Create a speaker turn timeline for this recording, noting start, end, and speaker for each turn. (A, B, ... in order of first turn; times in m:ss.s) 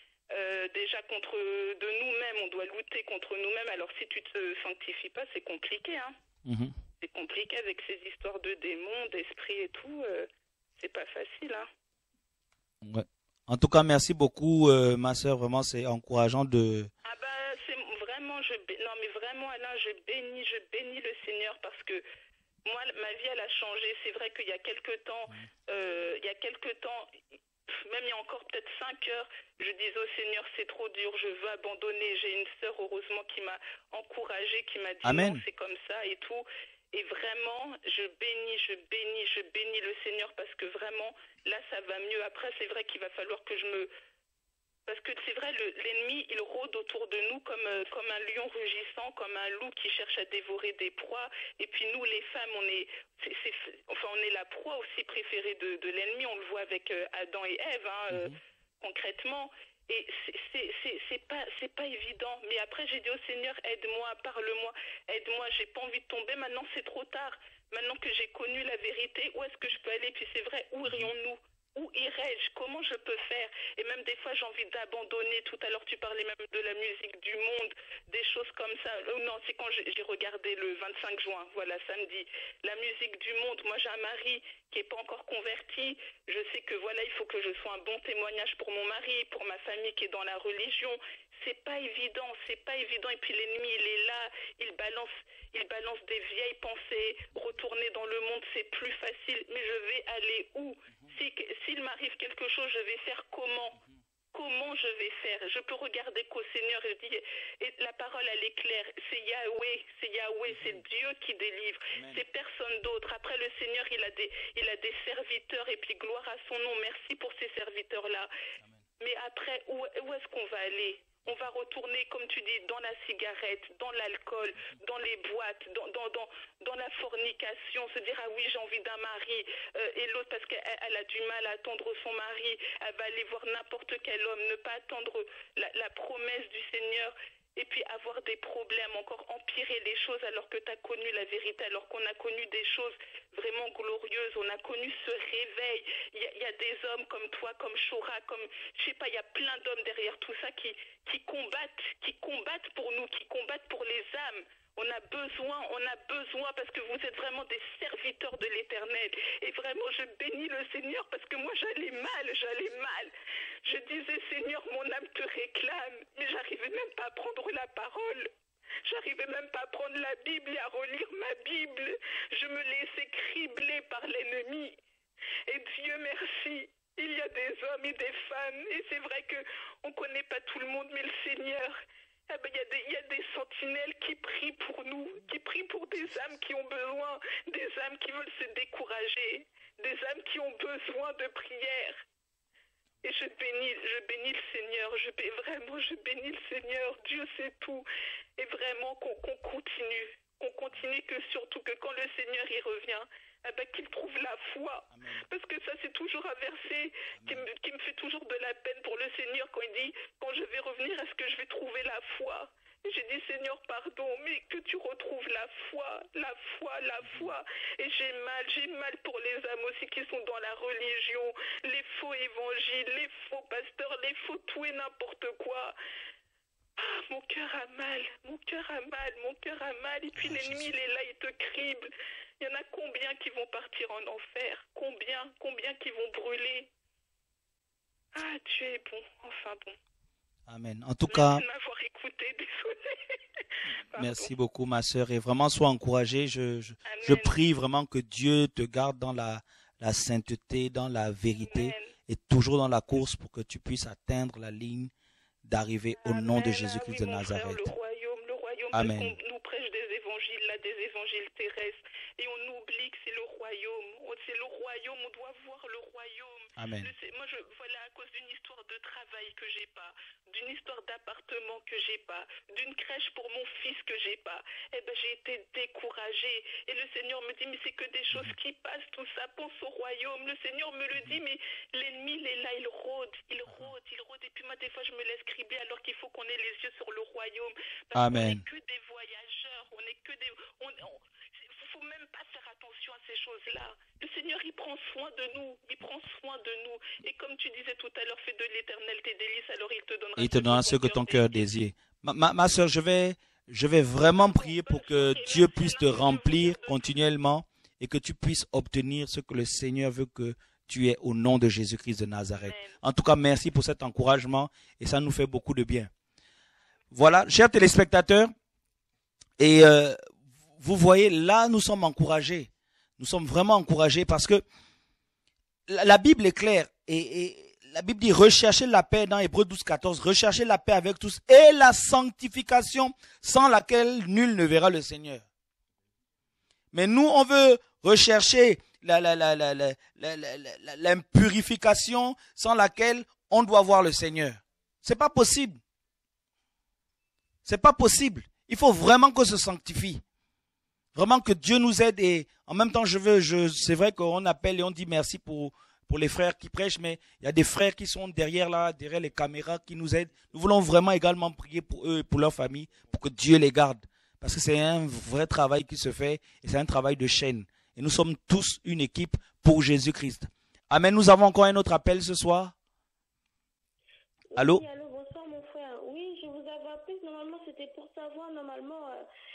0:00.3-0:06.1 A
0:06.4-0:06.7 B
0:07.0-0:11.7 A
0:12.8-0:16.9 B
0:17.0-0:22.0 A
0:22.6-0:27.1 A
0:27.7-0:43.9 A
0:35.0-0:35.4 B
0:44.9-1:43.8 A
1:44.3-1:58.3 A
1:50.5-1:50.8 B
1:51.9-1:52.2 B
1:59.0-2:43.1 A
2:43.6-2:48.3 A
2:48.8-2:54.8 A
2:55.5-3:12.0 A
3:13.0-3:17.8 A
3:18.4-3:45.8 A
3:24.9-3:25.2 B
3:27.1-3:27.5 B
3:37.0-3:37.3 B
3:46.8-3:56.7 A
3:50.1-3:50.7 B
3:58.1-3:59.8 A
4:00.5-4:01.4 B
4:01.1-4:04.3 A
4:03.9-4:14.9 B
4:06.8-4:07.4 A
4:11.3-4:11.9 A
4:15.4-4:17.7 B
4:16.0-5:01.5 A
4:18.7-4:19.1 B
4:26.6-4:26.9 B
4:47.9-4:48.4 B
5:00.2-5:15.9 B
5:04.0-5:06.9 A
5:12.4-5:12.8 A
5:16.9-5:18.3 B
5:19.4-5:20.0 B
5:20.6-5:24.4 B
5:25.7-5:35.2 B
5:36.7-5:45.6 B
5:47.4-5:50.0 B
5:50.9-6:12.5 B
6:14.3-6:19.0 C
6:14.4-6:14.6 B